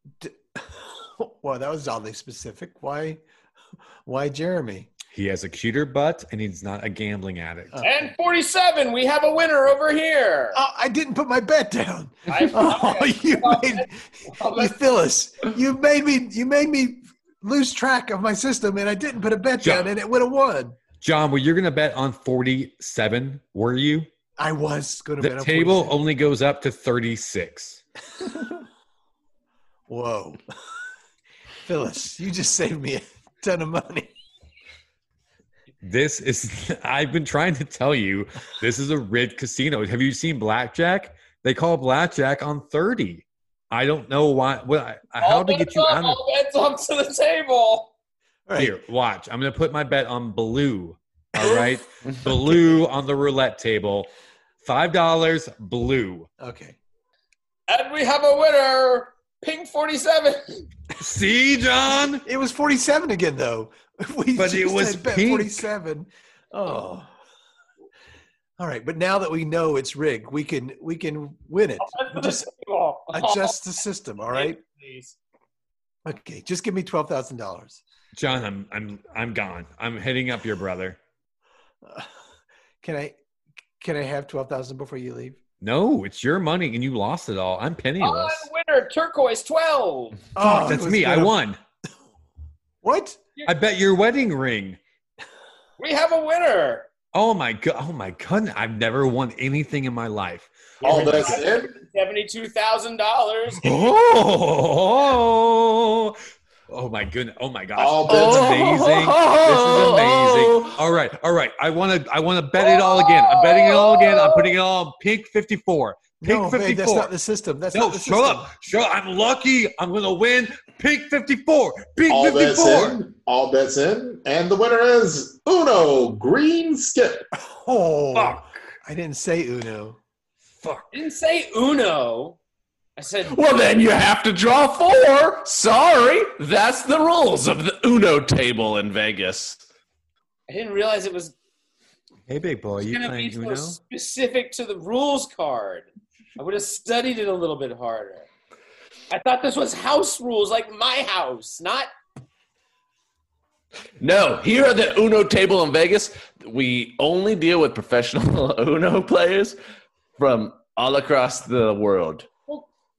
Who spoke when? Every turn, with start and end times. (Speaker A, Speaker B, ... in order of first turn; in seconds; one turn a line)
Speaker A: 0.2-3.2
Speaker A: 4.0-4.9
Speaker B: 5.1-7.8
Speaker C: 7.8-10.6
Speaker A: 10.5-20.8
Speaker C: 12.3-14.8
Speaker B: 19.6-19.9
Speaker B: 20.9-24.1
Speaker A: 24.4-25.9
Speaker B: 25.2-27.8
Speaker A: 29.9-30.4
Speaker A: 31.6-34.1
Speaker B: 35.8-46.2
Speaker C: 45.2-47.9
Speaker A: 48.5-48.8
Speaker B: 48.6-54.1
Speaker B: 54.6-56.3
Speaker A: 56.4-56.8
Speaker C: 57.7-60.6
Speaker B: 61.0-62.2
Speaker A: 62.2-67.1
Speaker B: 64.3-65.7
Speaker A: 68.6-72.3
Speaker C: 71.8-73.6
Speaker A: 73.1-74.6
Speaker C: 74.3-75.2
Speaker A: 76.0-77.8
Speaker B: 78.1-81.0
Speaker A: 81.8-82.1
Speaker A: 82.8-83.2
Speaker A: 83.8-85.4
Speaker B: 85.6-88.5
Speaker C: 88.0-90.2
Speaker A: 90.3-91.3
Speaker B: 90.4-91.6
Speaker A: 92.8-93.2
Speaker B: 93.4-94.8
Speaker C: 95.8-96.9
Speaker B: 97.1-101.3
Speaker D: 100.8-101.7
Speaker C: 100.8-103.6
Speaker B: 103.6-106.2
Speaker B: 106.7-117.1
Speaker D: 107.8-108.6
Speaker E: 108.1-110.8
Speaker C: 112.5-114.5
Speaker A: 116.2-118.5
Speaker B: 117.7-123.0
Speaker D: 122.1-127.2
Speaker A: 127.4-130.0
Speaker B: 128.1-128.6
Speaker B: 130.6-130.9
Speaker C: 130.9-132.4
Speaker C: 133.0-133.4
Speaker E: 133.3-139.6
Speaker C: 140.5-141.3
Speaker B: 142.3-143.8
Speaker C: 142.8-148.3
Speaker C: 149.1-151.9
Speaker E: 154.0-159.6
Speaker E: 160.2-162.3